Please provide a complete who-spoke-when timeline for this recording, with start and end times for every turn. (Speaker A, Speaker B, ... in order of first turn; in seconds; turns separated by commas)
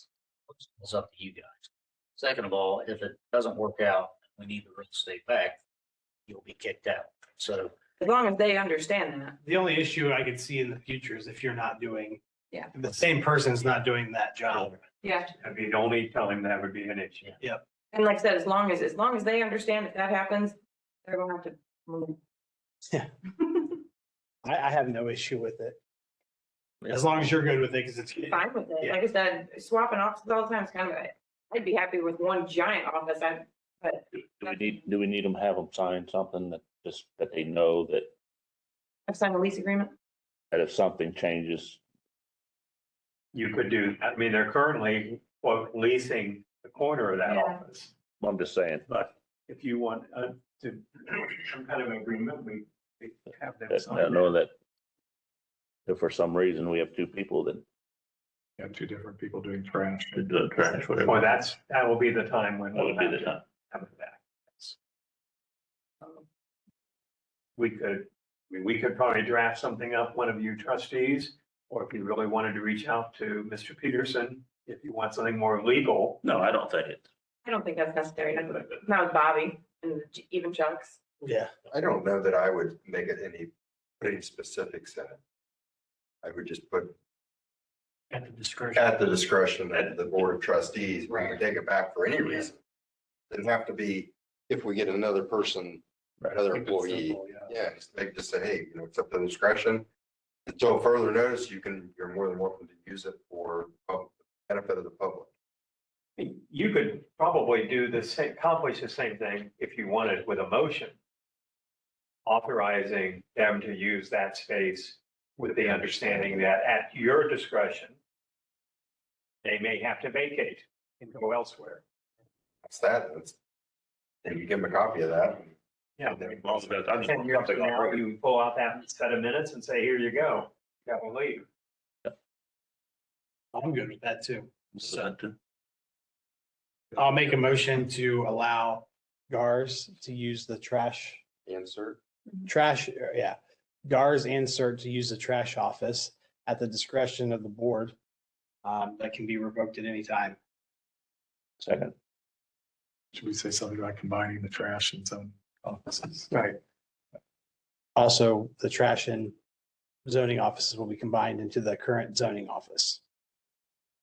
Speaker A: 0.5-5.6, Speaker A: 6.3-7.7, Speaker B: 8.0-9.4, Speaker C: 9.4-12.2, Speaker C: 12.7-14.8, Speaker B: 15.0-15.3, Speaker D: 15.4-17.3, Speaker B: 17.9-22.2, Speaker C: 24.4-25.8, Speaker E: 26.8-27.3, Speaker C: 26.9-29.0, Speaker B: 28.3-34.7, Speaker E: 34.4-38.1, Speaker B: 39.1-39.9, Speaker E: 40.5-41.8, Speaker D: 43.3-47.9, Speaker B: 47.2-47.6, Speaker E: 48.2-48.9, Speaker D: 48.9-54.3, Speaker E: 53.7-54.5, Speaker E: 55.9-57.6, Speaker F: 58.6-60.5, Speaker E: 60.1-61.3, Speaker D: 60.9-64.7, Speaker E: 62.7-63.4, Speaker D: 67.6-76.2, Speaker E: 76.2-77.0, Speaker B: 77.4-81.0, Speaker C: 81.2-81.5, Speaker G: 81.7-85.2, Speaker G: 86.2-86.9, Speaker A: 88.1-88.5, Speaker G: 88.7-92.6, Speaker G: 93.3-99.8, Speaker F: 96.3-97.5, Speaker G: 100.5-105.3, Speaker D: 106.2-111.0, Speaker D: 112.2-117.9, Speaker G: 115.6-116.4, Speaker D: 119.4-121.8, Speaker G: 122.6-123.3, Speaker G: 124.2-127.2, Speaker D: 126.0-126.2, Speaker E: 126.3-128.0, Speaker D: 127.0-131.4, Speaker C: 133.5-134.5, Speaker E: 134.7-135.3, Speaker C: 136.9-141.2, Speaker G: 141.4-142.0, Speaker C: 142.4-147.9, Speaker C: 148.6-150.4, Speaker E: 151.6-151.9, Speaker F: 153.1-156.3, Speaker D: 156.3-156.6, Speaker C: 157.9-159.3, Speaker C: 160.0-163.0